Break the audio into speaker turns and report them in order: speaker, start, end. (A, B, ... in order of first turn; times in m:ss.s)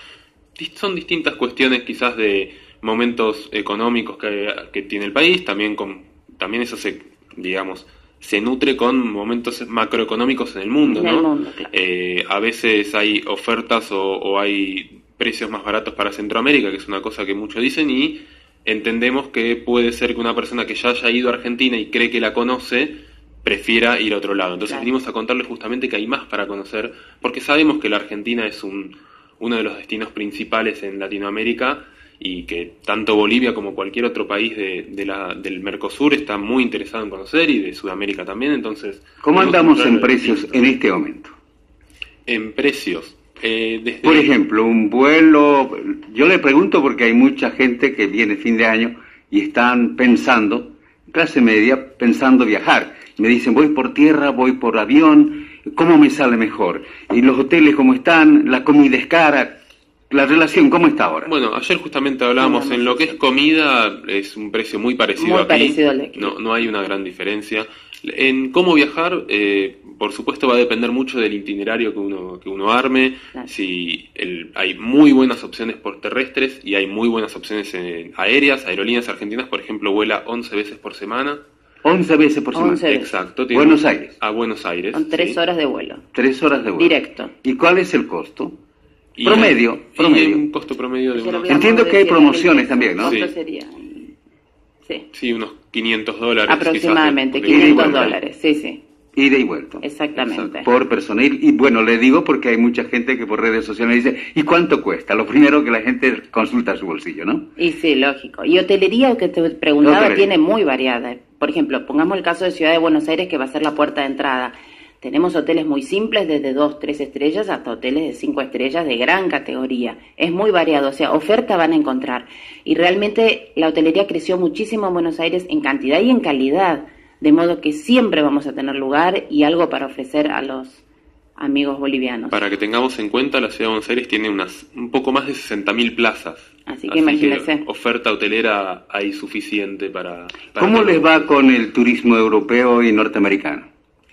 0:00.6-0:40.7 A
0:10.8-0:11.7 B
0:39.2-0:41.3 C
0:42.3-0:44.3 A
0:44.0-0:59.5 C
1:00.1-1:01.3 C
1:01.2-1:21.4 A
1:02.4-1:03.2 B
1:05.2-1:06.4 B
1:21.8-1:22.8 C
1:22.5-1:23.1 B
1:22.8-1:25.4 A
1:23.5-1:24.1 C
1:24.9-1:26.0 B
1:26.1-1:28.5 C
1:26.8-1:27.3 B
1:29.2-1:31.6 A
1:29.2-1:30.4 C
1:31.1-1:34.1 B
1:31.5-1:33.2 C
1:33.0-1:33.3 A
1:35.1-1:38.2 A
1:36.5-1:38.8 B
1:37.5-1:38.1 C
1:39.2-1:39.8 C
1:39.8-1:40.7 B
1:40.1-1:40.5 A
1:40.6-1:47.4 C
1:47.6-2:10.8 B
1:49.8-1:50.3 C
2:11.4-2:12.4 B
2:12.3-2:21.3 A
2:16.7-2:17.6 B
2:20.6-2:23.6 C